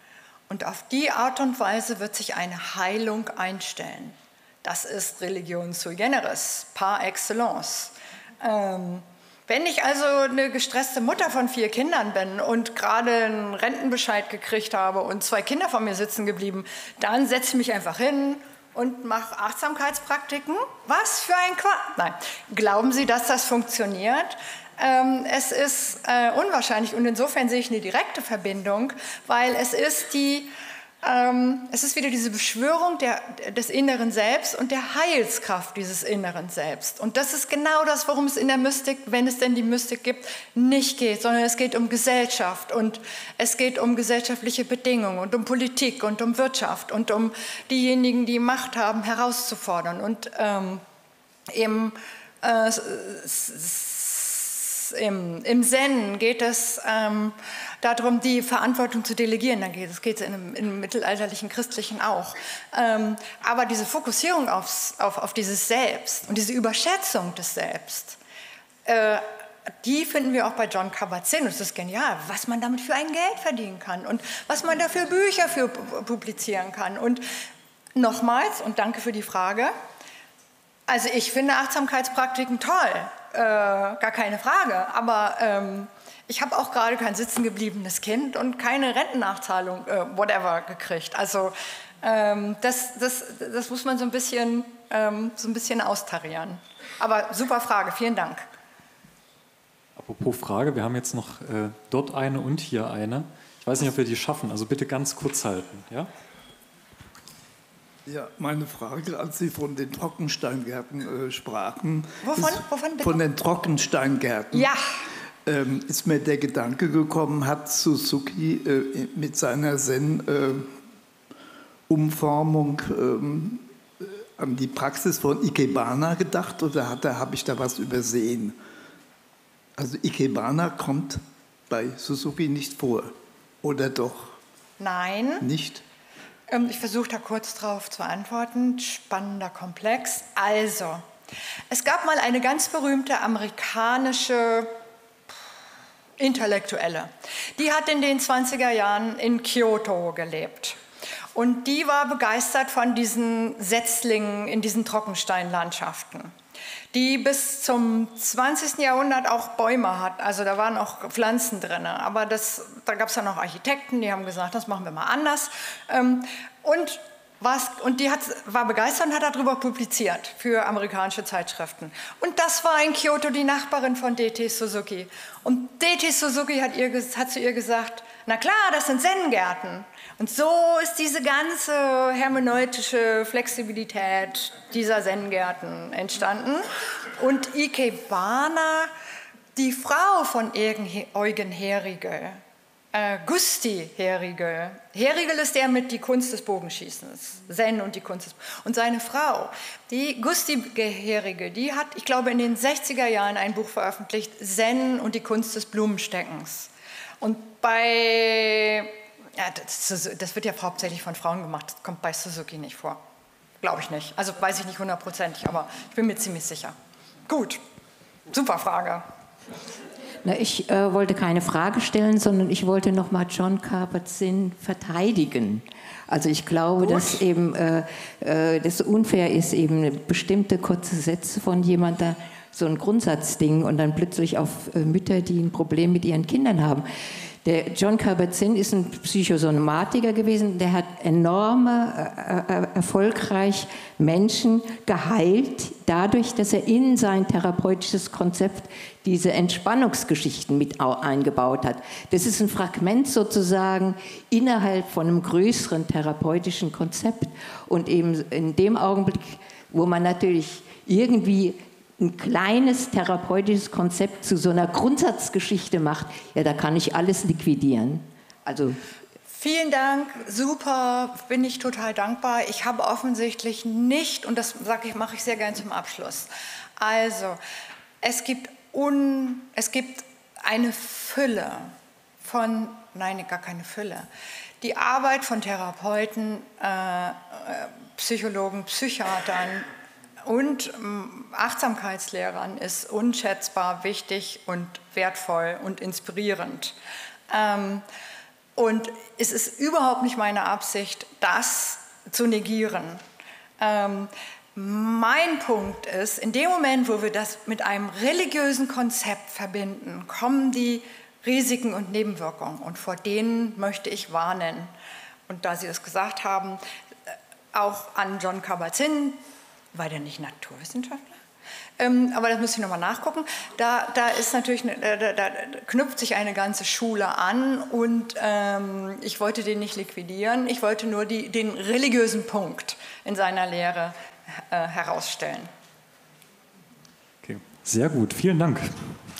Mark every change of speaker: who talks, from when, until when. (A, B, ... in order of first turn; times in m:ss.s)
0:00.5-0:30.5 A
0:31.0-0:50.8 A
0:51.5-1:08.2 A
1:08.9-1:17.2 A
1:18.0-1:19.7 A
1:20.9-1:38.5 A
1:40.0-1:46.1 B
1:48.1-1:54.7 C
1:52.2-1:53.2 A
1:54.5-1:54.9 A
1:55.4-2:00.7 C
2:01.9-2:08.6 C
2:09.8-2:14.4 C
2:14.8-2:15.5 A
2:15.4-2:15.8 C
2:16.5-2:21.0 A
2:21.7-2:24.7 A
2:26.2-2:30.8 A
2:31.3-2:36.3 A
2:36.9-3:08.9 A
3:09.6-3:12.4 A
3:12.9-3:33.0 A
3:33.6-3:36.8 A
3:37.3-3:37.6 A
3:38.3-3:39.1 A
3:40.2-3:56.9 D
3:46.8-3:47.2 A
3:57.4-4:28.8 D
4:29.3-4:37.4 A
4:38.0-4:44.1 A
4:44.6-4:49.7 A
4:50.2-4:56.8 A
4:57.3-4:57.8 A
4:58.6-5:03.0 A
5:03.6-5:14.7 A
5:15.3-5:19.2 A
5:19.7-5:21.2 A
5:21.8-5:35.5 A
5:37.2-5:39.0 B